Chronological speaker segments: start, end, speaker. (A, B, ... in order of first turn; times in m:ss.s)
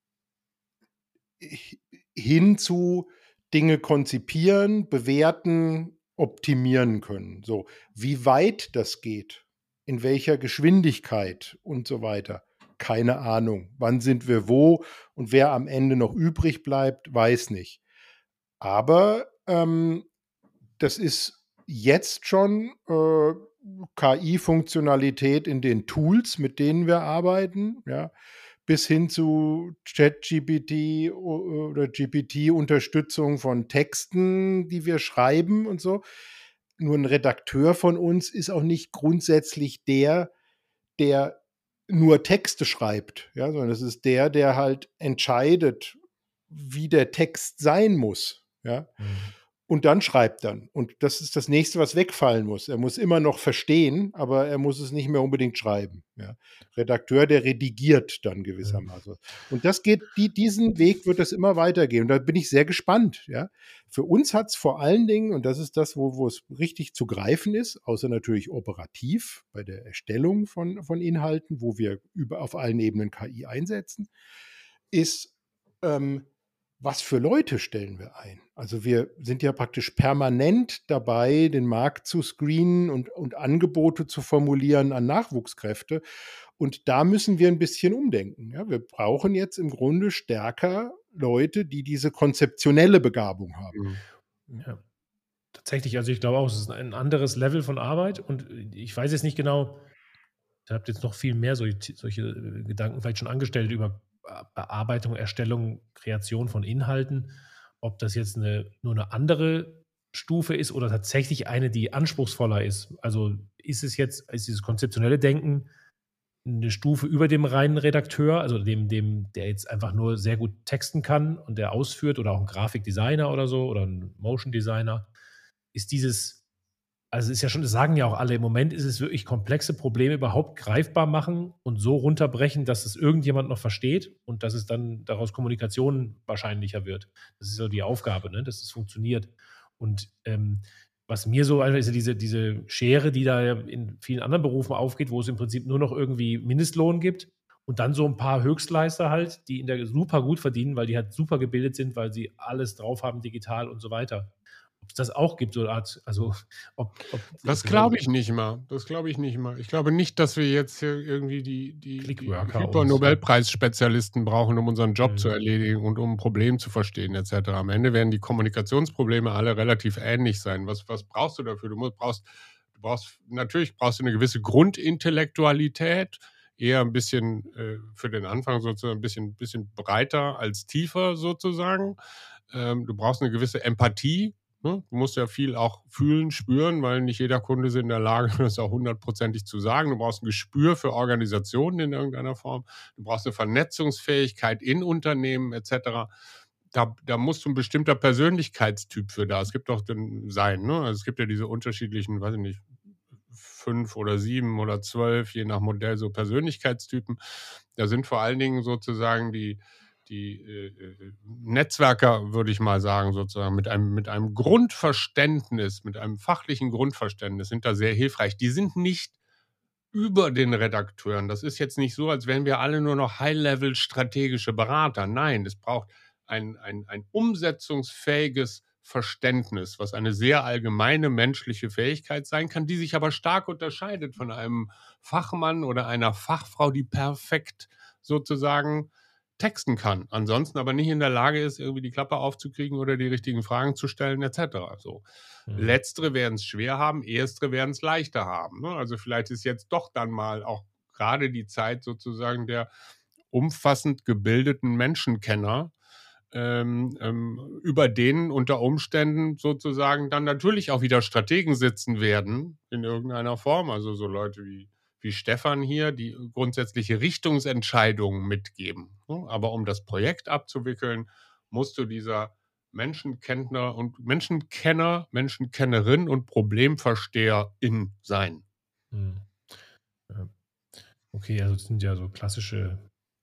0:01.4-0:17.8 A
0:18.6-0:20.1 A
0:20.8-0:28.1 A
0:28.6-0:36.0 A
0:36.8-0:40.3 A
0:41.0-0:46.0 A
0:46.5-0:48.9 A
0:49.0-0:49.3 B
0:49.7-1:14.1 A
1:14.9-1:16.3 A
1:16.8-1:26.0 A
1:26.6-1:33.8 A
1:33.7-1:34.0 C
1:35.5-1:39.9 B
1:40.6-1:55.7 B
1:56.4-2:05.1 B
2:05.7-2:06.4 B
2:07.1-2:38.0 B
2:37.4-3:02.0 C
2:42.0-2:43.2 B
2:45.0-2:45.3 B
3:02.5-3:16.1 C
3:16.7-3:22.7 C
3:23.3-3:27.2 C
3:27.7-3:39.1 C
3:39.9-4:12.7 C
4:05.5-4:05.8 B
4:13.3-4:15.7 C
4:16.3-4:38.4 C
4:38.9-4:39.5 B
4:40.9-4:42.8 B